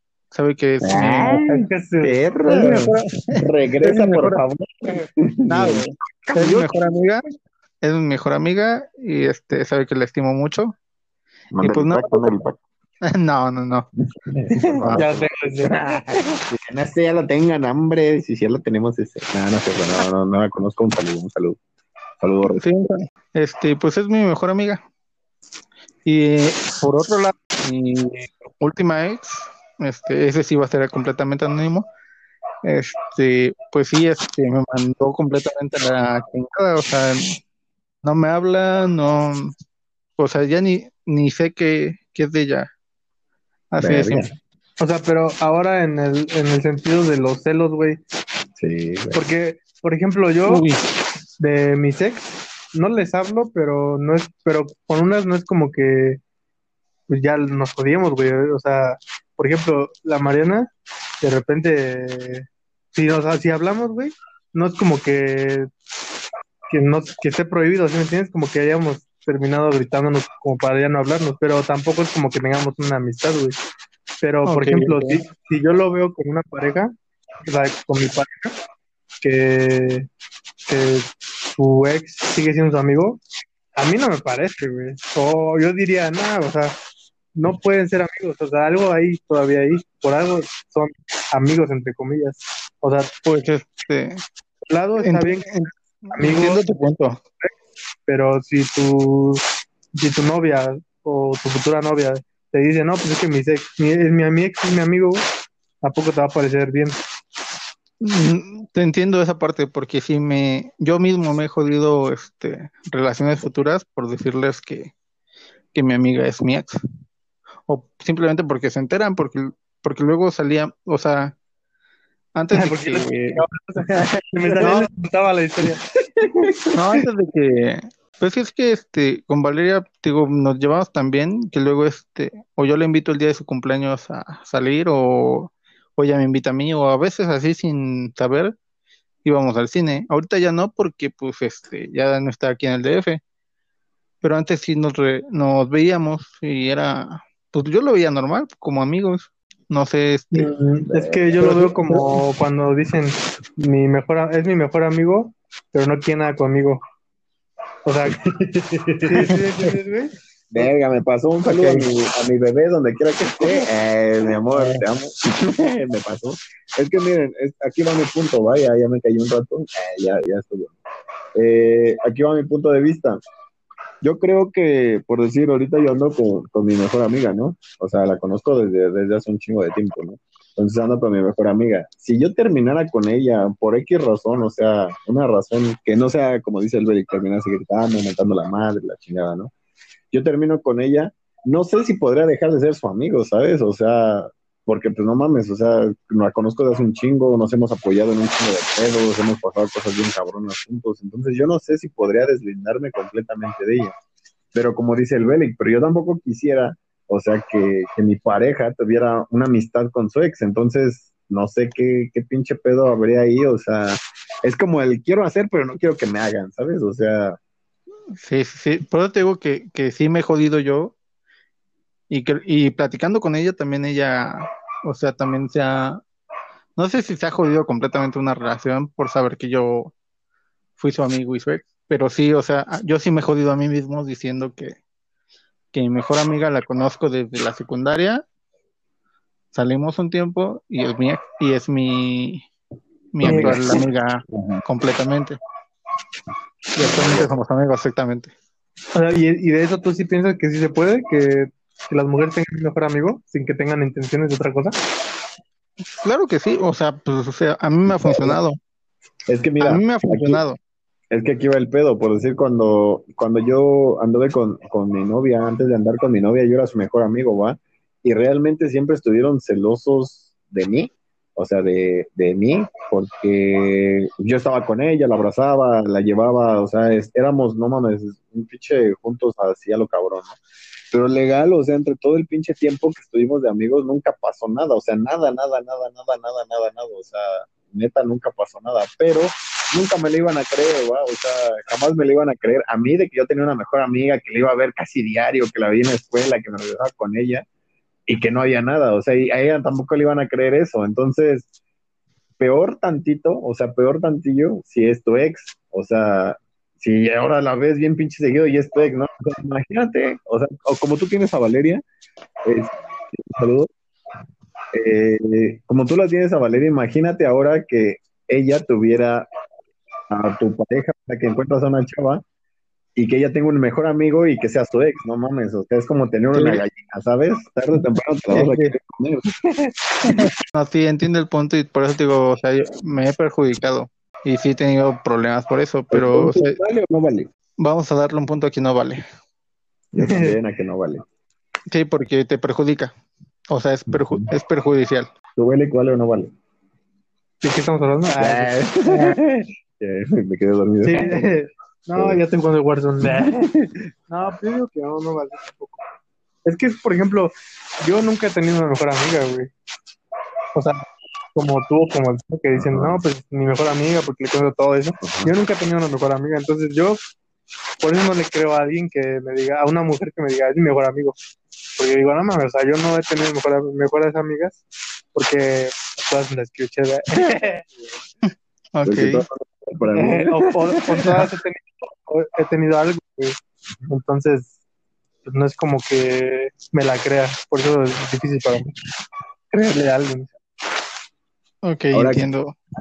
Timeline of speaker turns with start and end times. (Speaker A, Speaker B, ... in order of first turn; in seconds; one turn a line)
Speaker A: 0.3-1.4
Speaker B: 0.8-6.8
Speaker C: 1.4-2.2
Speaker A: 2.5-4.4
Speaker A: 5.5-7.2
Speaker A: 7.8-10.7
Speaker B: 11.5-12.6
Speaker A: 11.6-12.3
Speaker A: 13.1-13.9
Speaker B: 14.3-21.6
Speaker C: 14.6-15.8
Speaker B: 22.2-22.6
Speaker A: 22.6-24.8
Speaker A: 26.1-31.9
Speaker A: 32.6-37.4
Speaker A: 38.0-39.5
Speaker A: 40.2-42.7
Speaker A: 43.7-44.3
Speaker B: 43.8-44.3
Speaker C: 44.8-48.0
Speaker B: 48.6-49.2
Speaker C: 49.1-50.6
Speaker A: 50.5-50.8
Speaker C: 51.4-56.2
Speaker C: 57.1-60.7
Speaker C: 61.2-65.7
Speaker C: 66.7-73.6
Speaker C: 74.2-76.9
Speaker A: 74.5-75.2
Speaker C: 77.5-78.5
Speaker C: 79.2-80.1
Speaker C: 80.7-83.2
Speaker C: 83.8-86.8
Speaker C: 87.4-93.1
Speaker A: 93.2-94.2
Speaker C: 94.7-95.5
Speaker A: 95.0-97.2
Speaker C: 96.1-96.6
Speaker C: 98.1-99.4
Speaker C: 100.0-105.2
Speaker C: 105.8-107.0
Speaker A: 108.0-114.9
Speaker A: 115.7-116.8
Speaker A: 117.7-121.3
Speaker A: 122.3-123.4
Speaker C: 122.5-125.8
Speaker B: 123.9-124.9
Speaker B: 126.0-127.0
Speaker A: 126.8-138.5
Speaker A: 139.2-143.2
Speaker A: 144.2-150.5
Speaker C: 150.3-156.8
Speaker B: 150.9-151.7
Speaker A: 151.5-152.1
Speaker C: 157.8-158.2
Speaker B: 158.2-159.3
Speaker C: 159.1-160.7
Speaker B: 160.5-170.8
Speaker C: 161.4-161.9
Speaker B: 171.3-173.2
Speaker B: 174.0-189.5
Speaker B: 190.1-203.9
Speaker B: 204.5-217.4
Speaker A: 218.2-220.9
Speaker A: 222.1-226.0
Speaker A: 226.8-229.9
Speaker A: 230.8-234.8
Speaker A: 235.7-238.2
Speaker A: 239.5-242.5
Speaker A: 243.1-245.4
Speaker B: 243.2-243.9
Speaker C: 243.2-243.8
Speaker A: 246.8-248.3
Speaker B: 246.8-247.3
Speaker C: 248.9-254.8
Speaker A: 256.0-258.6
Speaker B: 257.9-258.4
Speaker B: 259.3-260.4
Speaker A: 259.6-260.6
Speaker B: 261.1-280.4
Speaker B: 280.9-297.4
Speaker B: 298.1-301.5
Speaker B: 302.4-311.8
Speaker B: 312.4-313.7
Speaker B: 314.7-319.3
Speaker B: 320.1-322.2
Speaker B: 323.0-330.2
Speaker A: 326.3-326.6
Speaker A: 328.3-328.7
Speaker A: 330.1-336.6
Speaker B: 335.9-337.3
Speaker A: 337.6-339.0
Speaker B: 339.9-341.0
Speaker C: 340.0-340.4
Speaker A: 341.7-342.9
Speaker A: 343.5-345.1
Speaker B: 343.9-344.3
Speaker B: 345.4-346.3
Speaker C: 347.4-348.5
Speaker B: 348.2-351.3
Speaker C: 350.8-353.3
Speaker B: 351.9-352.2
Speaker B: 353.0-353.9
Speaker C: 354.1-355.8
Speaker C: 356.4-359.5
Speaker C: 360.5-360.8
Speaker C: 361.3-367.0
Speaker B: 362.5-363.0
Speaker B: 365.0-365.3
Speaker C: 367.8-371.2
Speaker C: 371.8-374.6
Speaker C: 375.1-377.6
Speaker B: 377.4-377.9
Speaker A: 378.8-379.2
Speaker B: 378.9-381.2
Speaker C: 379.9-383.4
Speaker C: 383.9-384.5
Speaker C: 385.2-388.7
Speaker C: 389.5-390.3
Speaker A: 391.6-392.5
Speaker B: 391.9-392.2